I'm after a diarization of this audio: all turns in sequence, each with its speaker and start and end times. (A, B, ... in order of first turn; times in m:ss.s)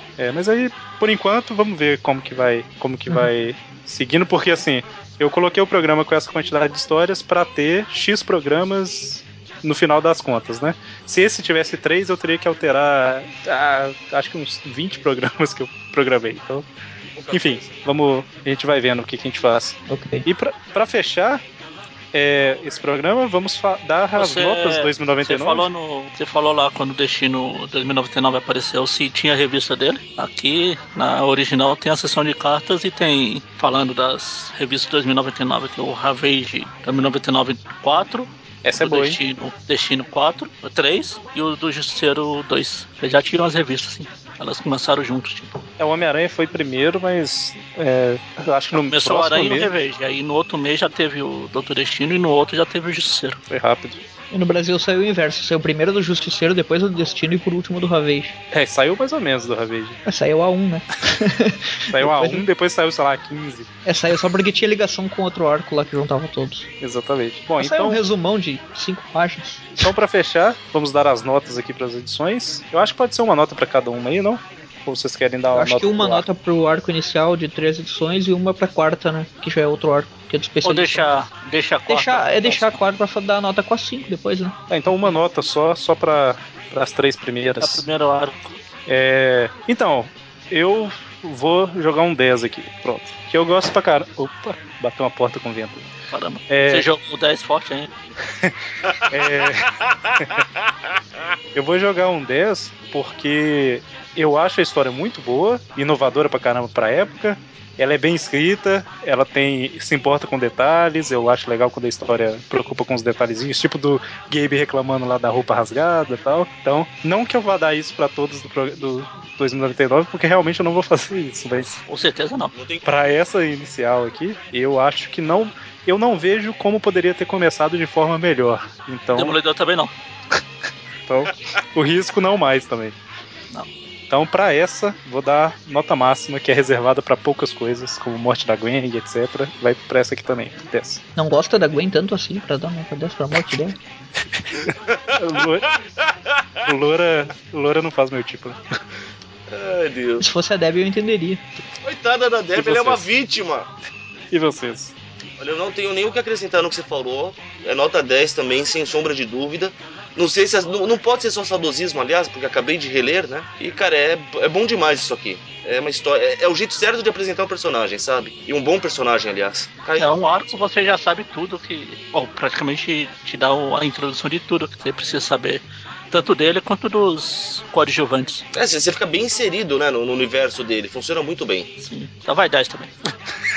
0:00.2-0:16.7 A
0:17.2-0:17.8 B
0:17.3-0:21.4 A
0:19.9-0:20.3 C
0:22.1-0:25.7 A
0:24.2-0:45.6 D
0:38.6-0:39.2 A
0:45.8-0:49.7 A
0:48.8-0:53.4 D
0:53.5-0:54.0 A
0:54.3-0:58.4 C
0:58.5-1:00.0 A
1:00.1-1:02.4 C
1:01.9-1:03.7 A
1:03.8-1:06.7 C
1:06.8-1:08.0 A
1:07.6-1:09.8 C
1:09.8-1:16.3 A
1:15.5-1:21.1 C
1:20.6-1:22.8 D
1:21.9-1:24.6 C
1:24.7-1:27.9 A
1:27.6-1:28.6 D
1:28.9-1:35.9 A
1:36.1-1:37.9 D
1:36.5-1:36.9 A
1:39.1-1:40.3 A
1:41.5-2:01.7 A
2:01.6-2:02.5 D
2:02.5-2:02.8 B
2:02.8-2:09.4 A
2:09.1-2:09.9 D
2:11.1-2:13.0 A
2:14.1-2:21.0 A
2:21.2-2:23.8 C
2:24.3-2:25.8 A
2:26.7-2:28.6 A
2:29.5-2:30.2 B
2:30.2-2:31.4 C
2:31.8-2:33.7 B
2:32.5-2:33.0 A
2:34.3-2:34.9 A
2:35.4-2:50.2 B
2:50.0-2:58.4 D
2:58.6-3:01.7 B
3:01.8-3:02.9 D